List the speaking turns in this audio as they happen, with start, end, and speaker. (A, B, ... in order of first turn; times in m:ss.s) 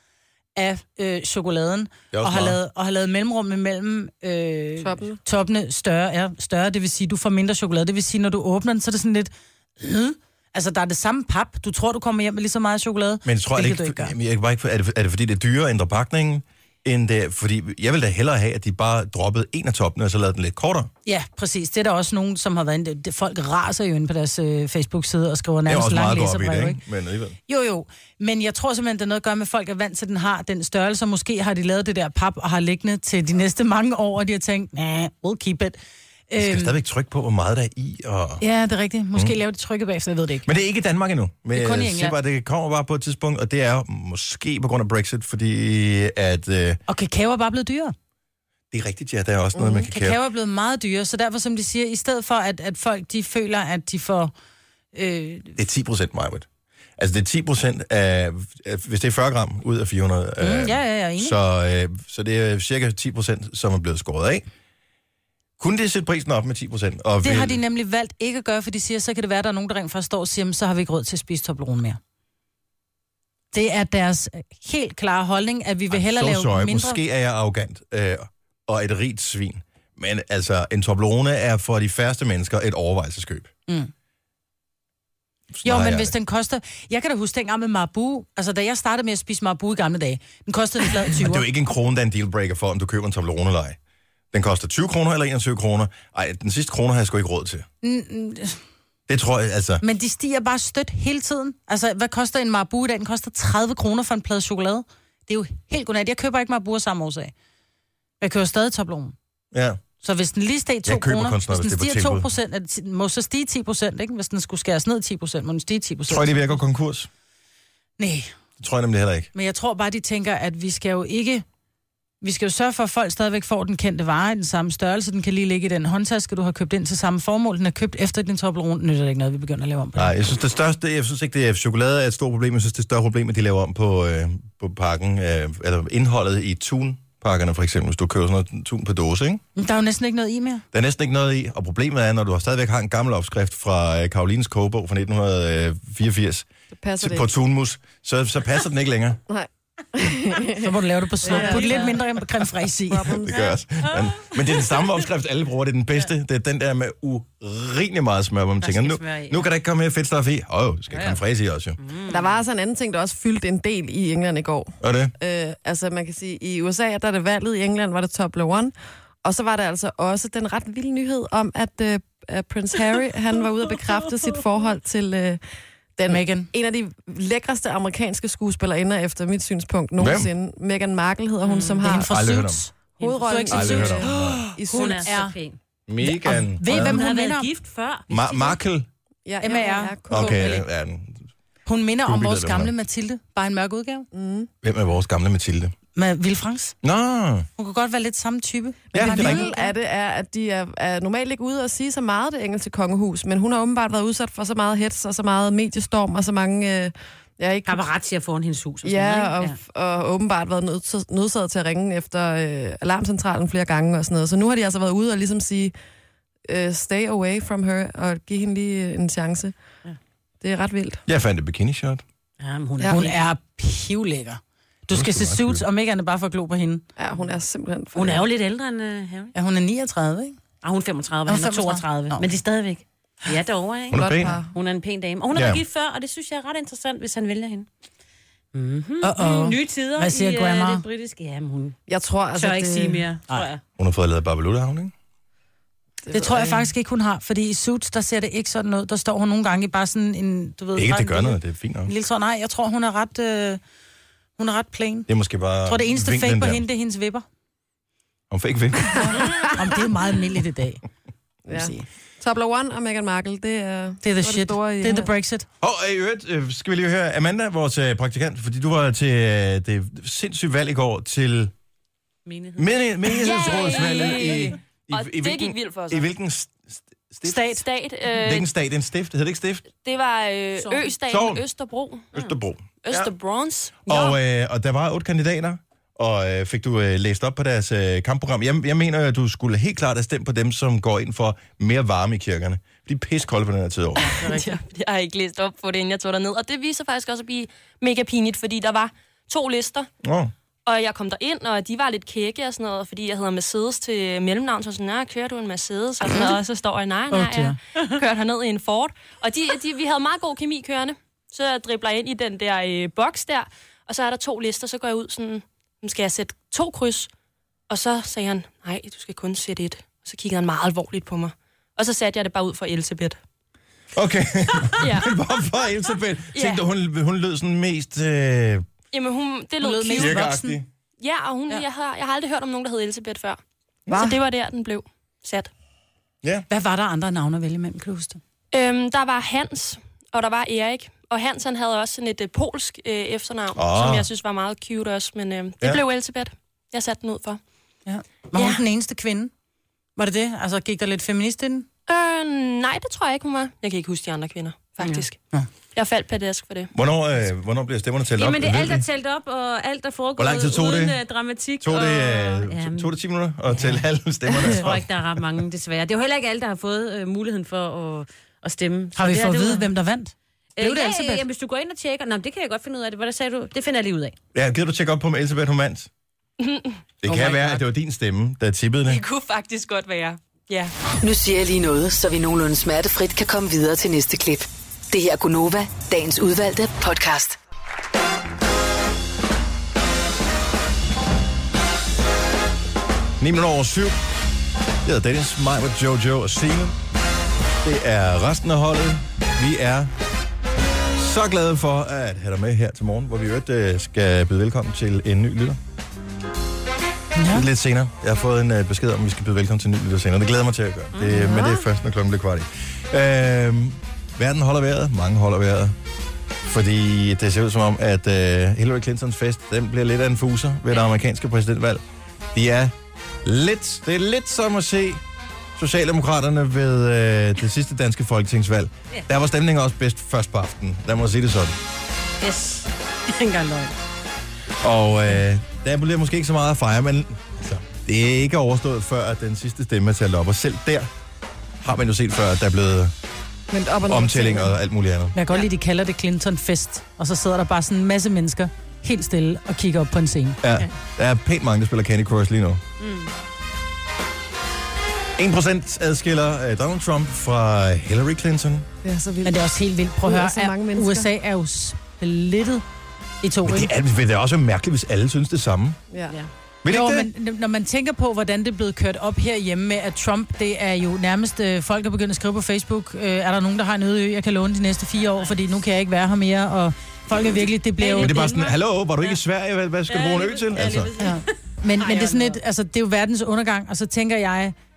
0:00.6-0:14.1 A
0:02.1-0:02.6 B
0:04.8-0:05.2 C
0:13.2-0:20.9 B
0:21.1-0:26.8 A
0:25.7-0:27.4 B
0:27.5-0:35.8 A
0:36.3-0:36.8 A
0:36.4-0:38.4 B
0:38.4-0:40.5 A
0:40.4-0:46.8 B
0:41.5-0:42.2 A
0:46.9-0:48.0 A
0:48.7-0:50.2 B
0:49.6-0:49.9 C
0:49.9-0:54.3 A
0:54.9-0:55.6 A
0:55.6-0:56.5 B
0:57.0-1:04.5 B
1:00.4-1:01.4 A
1:05.6-1:07.6 B
1:07.2-1:12.0 A
1:13.5-1:17.0 A
1:15.9-1:23.5 B
1:25.5-1:26.1 B
1:25.6-1:31.5 A
1:31.0-1:33.8 B
1:34.3-1:37.7 B
1:37.8-1:38.6 A
1:39.1-1:39.8 B
1:39.8-1:47.3 A
1:48.2-1:49.2 A
1:49.5-1:49.8 B
1:50.0-1:56.6 A
1:50.8-1:52.3 B
1:56.1-1:57.1 B
1:58.0-1:58.3 A
1:58.6-1:59.3 B
1:59.4-2:01.4 A
2:02.2-2:10.1 A
2:10.0-2:19.4 B
2:19.6-2:20.6 A
2:20.7-2:26.5 B
2:26.8-2:27.3 C
2:27.0-2:29.2 B
2:29.3-2:32.0 C
2:30.6-2:33.2 A
2:31.3-2:32.0 D
2:32.9-2:33.6 C
2:33.2-2:41.8 B
2:38.6-2:39.5 D
2:40.9-2:41.2 D
2:41.8-2:42.4 D
2:42.1-2:48.7 C
2:44.8-2:45.1 B
2:49.2-2:55.4 C
2:56.0-3:02.1 C
2:56.1-2:56.5 A
3:00.0-3:00.3 B
3:01.4-3:01.9 D
3:01.8-3:04.2 A
3:02.0-3:02.6 B
3:03.0-3:05.1 C
3:03.5-3:04.6 B
3:04.6-3:05.6 D
3:04.7-3:05.4 A
3:05.9-3:07.0 B
3:06.0-3:07.5 A
3:06.6-3:08.6 D
3:08.1-3:08.9 B
3:09.3-3:10.6 C
3:09.4-3:10.6 A
3:10.1-3:11.2 B
3:11.7-3:14.1 A
3:12.0-3:12.7 B
3:14.1-3:14.5 C
3:14.6-3:15.7 B
3:16.0-3:16.8 A
3:16.8-3:17.5 B
3:17.6-3:19.7 A
3:18.9-3:19.5 B
3:18.9-3:27.9 C
3:27.6-3:29.6 D
3:28.8-3:35.7 C
3:36.5-3:39.5 C
3:40.4-3:41.0 C
3:41.1-3:42.0 B
3:42.4-3:43.2 D
3:42.8-3:43.1 C
3:42.9-3:46.8 A
3:44.9-3:45.6 B
3:47.0-3:48.2 C
3:47.9-3:49.3 D
3:49.4-3:50.4 A
3:50.6-3:57.7 D
3:51.3-3:52.3 A
3:53.9-3:54.4 B
3:53.9-3:54.5 C
3:55.3-3:55.6 B
3:58.5-4:01.8 D
3:59.0-4:00.8 A
4:01.9-4:03.1 C
4:02.4-4:03.6 D
4:03.8-4:04.9 B
4:06.0-4:06.7 C
4:06.1-4:13.6 A
4:10.8-4:11.9 B
4:14.4-4:15.1 A
4:15.1-4:16.6 B
4:15.6-4:17.2 A
4:18.3-4:19.6 B
4:19.2-4:19.5 C
4:19.5-4:20.8 A
4:21.5-4:25.1 C
4:21.5-4:21.9 A
4:24.0-4:25.5 A
4:25.6-4:31.5 B
4:32.3-4:34.4 D
4:32.6-4:37.4 B
4:33.1-4:36.1 E
4:37.2-4:37.7 A
4:37.4-4:38.5 E
4:38.2-4:39.7 B
4:39.7-4:42.2 E
4:40.6-4:40.8 D
4:41.1-4:41.4 B
4:42.1-4:43.1 B
4:42.8-4:44.2 E
4:43.9-4:54.2 B
4:54.0-4:59.9 E
4:54.2-4:54.6 A
5:00.0-5:00.3 B
5:00.6-5:17.1 E
5:07.1-5:07.6 A
5:17.7-5:23.2 E
5:23.9-5:28.6 B
5:24.7-5:25.3 E
5:26.3-5:26.6 E
5:28.9-5:30.2 E
5:29.6-5:30.6 A
5:30.0-5:30.7 B
5:31.0-5:35.5 E
5:33.9-5:34.2 B
5:36.5-5:38.2 A
5:38.5-5:47.4 E
5:43.6-5:44.1 B
5:47.9-5:49.3 A
5:48.4-5:48.6 E
5:50.0-5:51.7 A
5:51.9-5:55.2 E
5:55.8-5:56.7 E
5:56.7-5:58.9 B
5:58.2-6:02.9 D
6:00.2-6:01.0 B
6:01.6-6:04.8 B
6:04.4-6:09.7 D
6:09.0-6:11.2 A
6:10.6-6:14.2 D
6:14.3-6:15.9 B
6:16.4-6:17.6 E
6:17.0-6:19.0 B
6:18.9-6:20.7 E
6:21.0-6:27.4 F
6:33.2-6:34.0 B
6:34.8-6:36.8 B
6:37.6-6:39.9 B
6:41.0-6:45.6 B
6:47.2-6:47.5 A
6:47.3-6:55.8 B
6:51.0-6:51.6 C
6:56.5-7:02.7 B
7:03.2-7:05.0 B
7:05.6-7:11.6 B
7:12.2-7:13.8 D
7:14.6-7:20.9 B
7:21.6-7:22.9 B
7:23.5-7:24.5 C
7:23.9-7:25.2 B
7:25.2-7:30.7 A
7:30.4-7:32.6 B
7:32.8-7:33.1 D
7:35.2-7:38.7 B
7:38.8-7:39.4 C
7:39.2-7:42.6 A
7:40.0-7:41.1 C
7:43.2-7:43.7 A
7:43.4-7:45.8 B
7:45.9-7:46.2 C
7:46.6-7:47.1 B
7:46.7-7:58.3 A
7:55.0-7:55.5 D
7:57.8-7:58.1 E
7:58.0-8:00.9 B
7:58.1-7:58.5 D
7:59.9-8:02.4 D
8:01.0-8:04.6 A